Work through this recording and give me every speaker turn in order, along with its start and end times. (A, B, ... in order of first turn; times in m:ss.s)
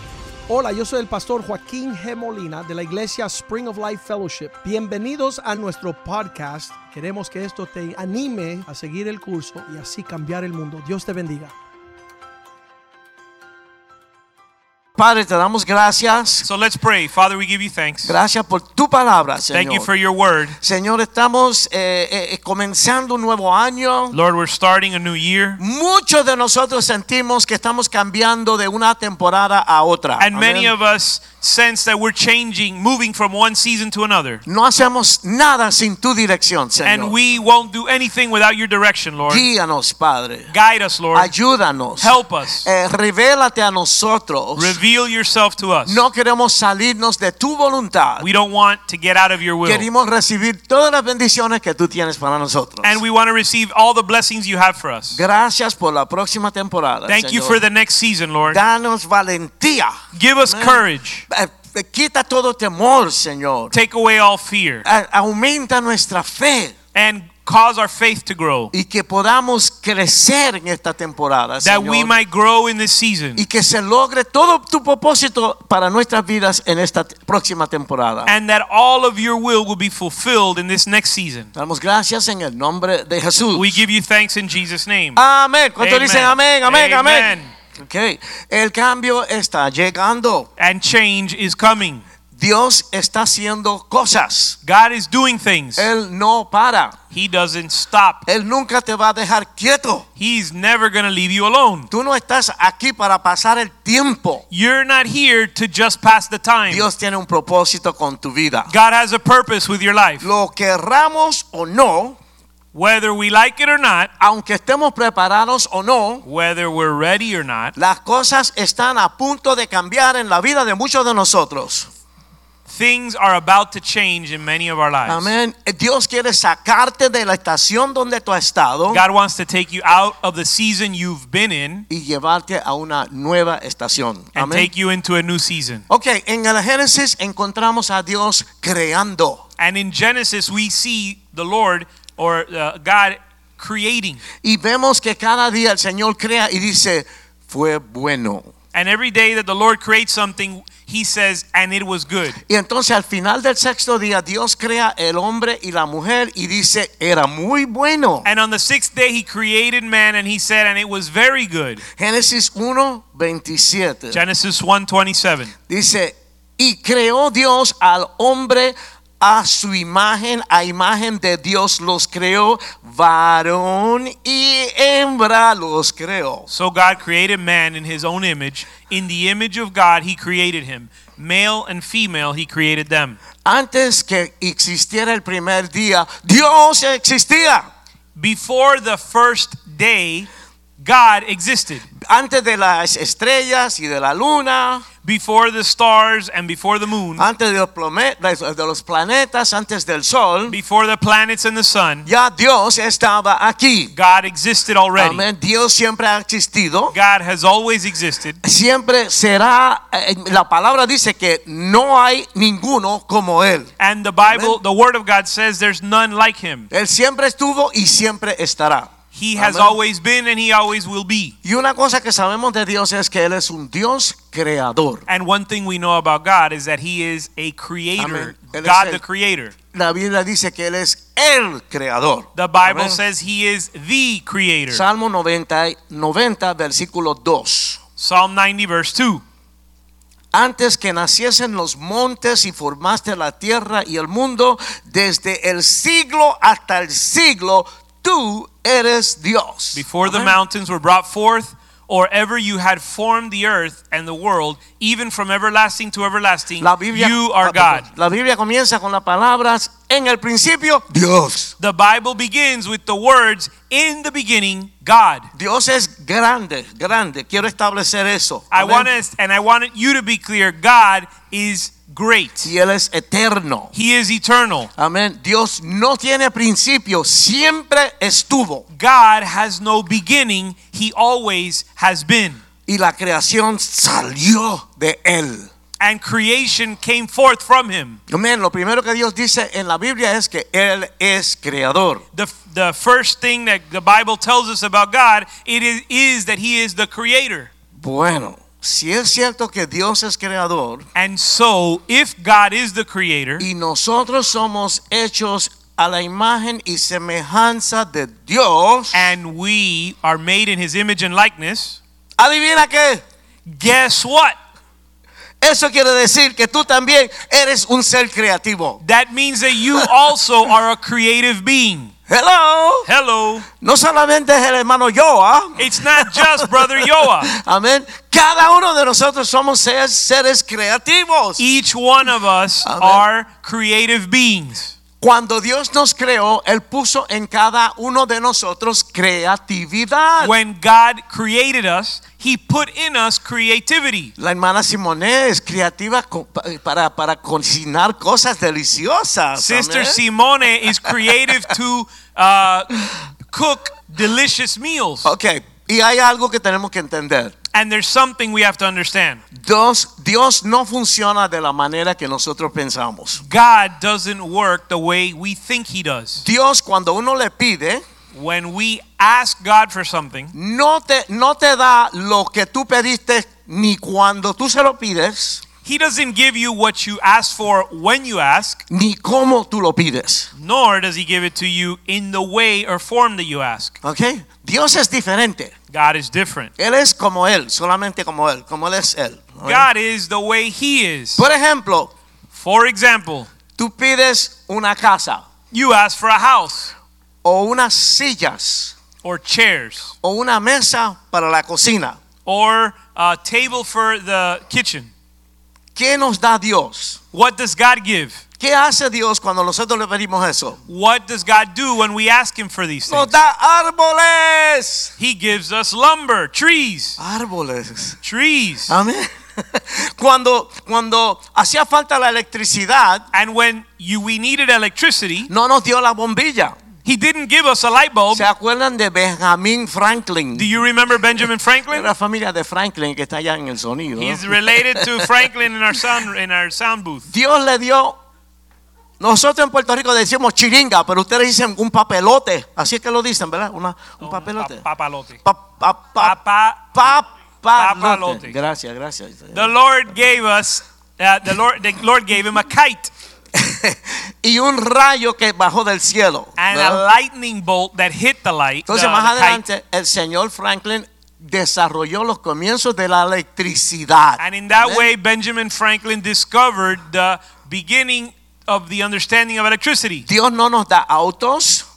0:00.5-0:11.5 A
0:15.0-0:16.5 B
0:16.4-0:18.2 C
0:18.0-0:19.9 B
0:19.5-0:20.6 C
0:20.6-0:24.2 B
0:24.1-0:25.6 C
0:25.6-0:30.7 B
0:30.2-0:34.4 C
0:34.5-0:37.2 B
0:36.8-0:39.5 C
0:39.3-0:40.5 B
0:40.5-0:41.3 C
0:41.1-0:44.8 B
0:42.0-0:42.7 C
0:44.6-0:46.0 C
0:45.9-0:48.3 B
0:48.2-0:49.8 C
0:49.6-0:53.0 B
0:52.8-0:55.2 C
0:55.2-0:57.6 B
0:57.1-0:58.6 C
0:58.5-1:03.7 B
1:00.1-1:01.3 C
1:03.7-1:04.9 C
1:04.8-1:06.7 B
1:06.9-1:08.7 C
1:08.7-1:12.1 B
1:11.6-1:13.4 C
1:13.4-1:18.3 B
1:18.3-1:21.5 C
1:21.6-1:23.8 B
1:23.5-1:25.2 C
1:25.2-1:30.5 B
1:25.8-1:27.5 C
1:30.6-1:32.0 C
1:32.4-1:34.6 B
1:34.6-1:35.9 C
1:35.8-1:37.0 B
1:37.1-1:38.2 C
1:38.3-1:40.0 B
1:40.2-1:41.9 C
1:41.9-1:44.4 B
1:44.5-1:46.9 C
1:46.7-1:48.7 B
1:48.7-1:50.3 C
1:50.2-1:52.2 B
1:52.7-1:54.1 C
1:54.2-1:56.2 B
1:56.2-1:57.7 C
1:57.8-2:01.9 B
2:02.7-2:05.3 C
2:05.1-2:09.0 B
2:08.9-2:11.9 C
2:11.9-2:14.7 B
2:14.4-2:15.8 C
2:15.9-2:19.4 B
2:19.6-2:24.2 C
2:24.4-2:28.5 B
2:28.7-2:32.4 C
2:32.5-2:38.3 B
2:38.2-2:41.8 C
2:41.9-2:44.2 B
2:44.1-2:45.5 C
2:45.7-2:56.5 B
2:56.5-3:03.2 C
3:03.4-3:07.6 B
3:08.2-3:11.9 C
3:12.0-3:14.9 B
3:15.0-3:17.2 C
3:17.2-3:20.6 B
3:20.5-3:22.1 C
3:22.1-3:23.9 B
3:23.9-3:25.2 C
3:25.0-3:26.9 B
3:26.9-3:28.4 C
3:28.4-3:33.7 B
3:33.8-3:36.7 C
3:34.2-3:34.6 B
3:36.7-3:39.8 B
3:39.1-3:41.3 C
3:41.4-3:45.0 B
3:45.1-3:49.5 C
3:48.0-3:49.0 B
3:49.7-3:53.0 B
3:52.4-3:54.8 C
3:54.7-3:57.8 B
3:58.0-3:59.2 C
4:00.3-4:10.4 B
4:09.7-4:17.9 C
4:16.6-4:21.5 B
4:21.6-4:25.3 C
4:25.4-4:28.9 B
4:28.5-4:32.5 C
4:32.4-4:33.7 B
4:33.7-4:34.7 C
4:34.8-4:38.7 B
4:38.7-4:42.4 C
4:42.7-4:45.5 B
4:45.8-4:48.0 C
4:48.1-4:52.0 B
4:52.1-4:57.5 C
4:57.8-5:00.8 B
5:01.0-5:03.4 C
5:03.4-5:09.1 B
5:08.9-5:11.8 C
5:12.2-5:13.0 B
5:13.5-5:14.4 C
5:15.4-5:18.8 B
5:18.8-5:21.9 C
5:22.1-5:22.9 B
5:22.9-5:23.5 C
5:23.6-5:31.4 B
5:25.6-5:27.3 C
5:31.4-5:34.8 C
5:32.6-5:33.0 B
5:35.0-5:40.3 B
5:40.2-5:44.1 C
5:44.2-5:50.0 B
5:49.4-5:55.1 C
5:55.0-5:57.3 B
5:57.5-5:59.2 C
5:59.3-6:03.2 B
6:03.2-6:06.2 C
6:06.2-6:07.8 B
6:08.1-6:10.3 C
6:10.3-6:15.4 B
6:15.6-6:18.6 C
6:18.7-6:20.3 B
6:20.4-6:23.8 C
6:23.8-6:25.5 B
6:25.7-6:26.5 C
6:26.6-6:29.7 B
6:29.4-6:31.3 C
6:31.2-6:31.9 B
6:32.3-6:33.3 C
6:33.6-6:35.3 B
6:35.5-6:36.7 C
6:37.2-6:38.8 B
6:39.0-6:40.0 C
6:40.0-6:42.0 B
6:42.2-6:44.9 C
6:45.8-6:47.0 B
6:47.1-6:48.2 C
6:48.4-6:50.6 B
6:50.7-6:53.1 C
6:52.9-6:54.9 B
6:55.0-6:57.0 C
6:57.0-6:58.0 B
6:58.0-6:58.7 C
6:58.7-7:03.1 B
7:03.1-7:05.3 C
7:05.3-7:06.6 B
7:06.8-7:08.2 C
7:08.1-7:10.5 B
7:10.3-7:11.9 C
7:11.7-7:15.1 B
7:14.0-7:17.1 C
7:17.1-7:18.0 B
7:19.0-7:24.6 B
7:24.0-7:25.2 C
7:25.2-7:26.2 B
7:26.0-7:26.7 C
7:26.7-7:29.5 B
7:27.5-7:28.4 C
7:29.3-7:32.9 C
7:33.3-7:36.8 B
7:36.4-7:39.4 C
7:38.7-7:44.9 B
7:44.2-7:50.1 C
7:50.1-7:51.6 B